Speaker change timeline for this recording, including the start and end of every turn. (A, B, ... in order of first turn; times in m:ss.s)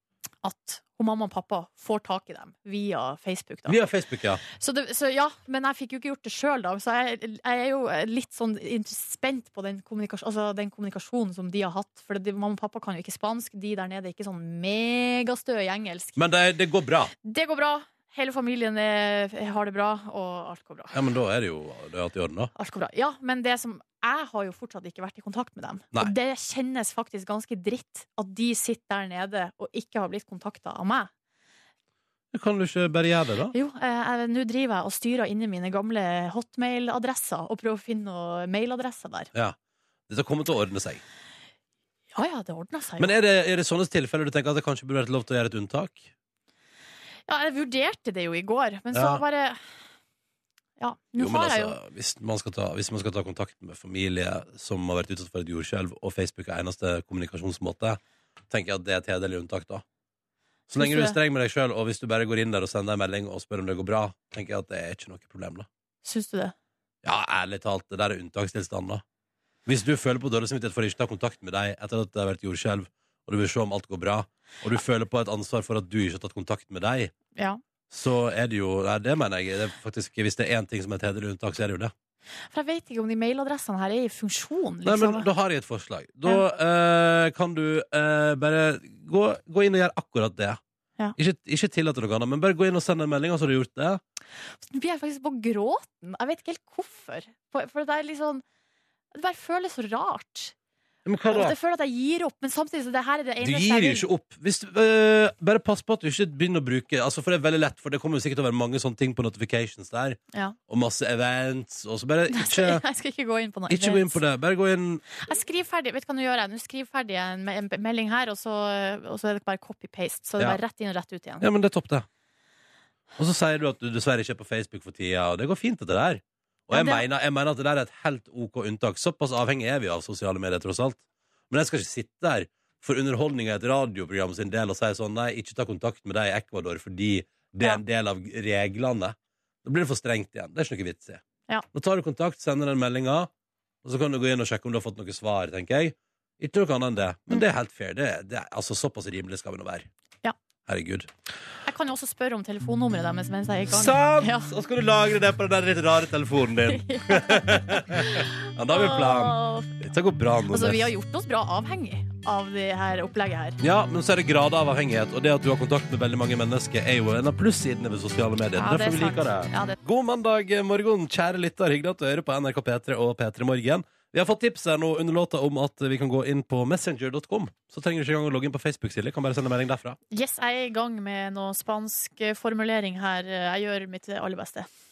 0:00.4-0:03.8 A
0:03.7-0:04.4 B
0:04.5-0:16.2 A
0:16.2-0:17.1 B
0:17.2-0:20.9 A
0:20.9-0:22.5 B
0:22.6-0:31.1 A
0:32.3-0:33.5 B
0:33.5-0:39.3 A
0:40.1-0:41.0 B
0:42.1-0:43.1 A
0:43.0-0:46.1 B
0:47.3-0:49.6 A
0:48.9-0:49.2 B
0:50.8-0:51.8 A
0:51.2-0:59.8 B
1:00.7-1:05.7 B
1:00.8-1:01.2 A
1:06.0-1:06.5 A
1:07.0-1:09.0 B
1:09.6-1:17.1 B
1:17.9-1:21.9 B
1:22.5-1:25.3 A
1:24.8-1:30.6 B
1:31.2-1:34.0 B
1:34.6-1:38.4 A
1:39.1-1:40.5 A
1:41.0-1:41.5 B
1:41.3-1:44.0 A
1:43.4-1:52.8 B
1:52.3-1:54.2 A
1:53.7-1:55.0 B
1:55.2-2:01.5 A
2:01.4-2:02.0 B
2:03.2-2:21.2 B
2:06.7-2:07.0 A
2:21.7-2:23.3 B
2:23.8-2:29.9 B
2:30.7-2:31.1 B
2:31.6-2:34.5 A
2:33.7-2:40.9 B
2:36.7-2:39.7 A
2:40.5-2:43.6 A
2:43.6-3:00.0 B
2:48.6-2:49.8 A
3:00.1-3:04.7 A